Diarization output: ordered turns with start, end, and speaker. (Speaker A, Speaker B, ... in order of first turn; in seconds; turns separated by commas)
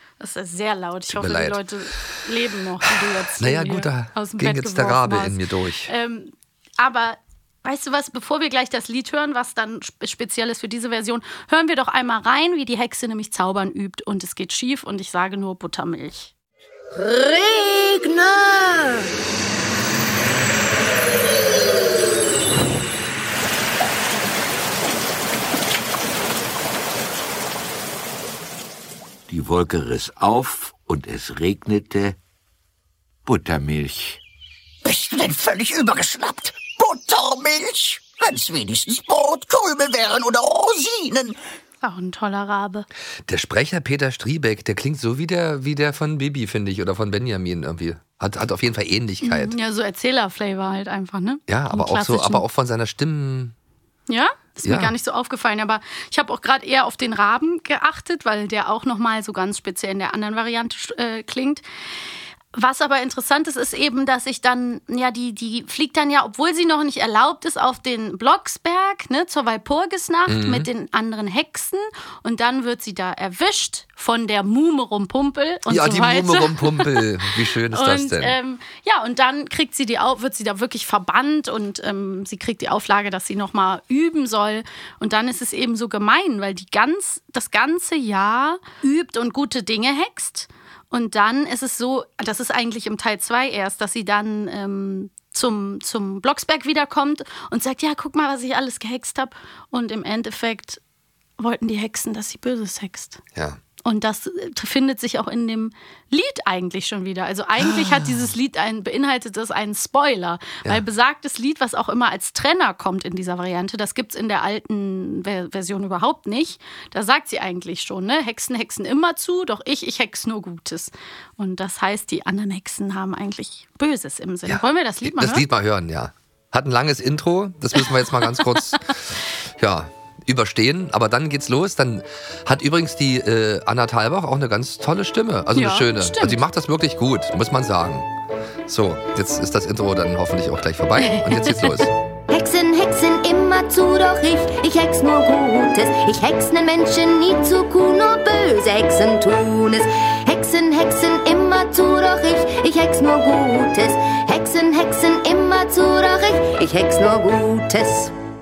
Speaker A: 0.2-16.3, Speaker B: 1.1-1.6, Speaker B: 2.9-5.9, Speaker C: 16.9-18.9, Speaker D: 29.3-32.1, Speaker D: 33.2-34.2, Speaker E: 34.8-41.4, Speaker A: 41.8-42.9, Speaker B: 43.2-49.6, Speaker A: 49.2-52.4, Speaker B: 51.5-53.5, Speaker A: 54.1-61.6, Speaker B: 54.6-54.9, Speaker A: 62.5-100.8, Speaker B: 70.3-70.7, Speaker B: 75.7-78.4, Speaker A: 101.4-103.2, Speaker B: 103.3-103.6, Speaker A: 103.8-125.4, Speaker B: 107.6-108.2, Speaker B: 124.5-138.1, Speaker A: 127.8-128.8, Speaker A: 135.6-136.4, Speaker B: 138.7-141.9, Speaker A: 141.0-141.9, Speaker C: 142.3-158.1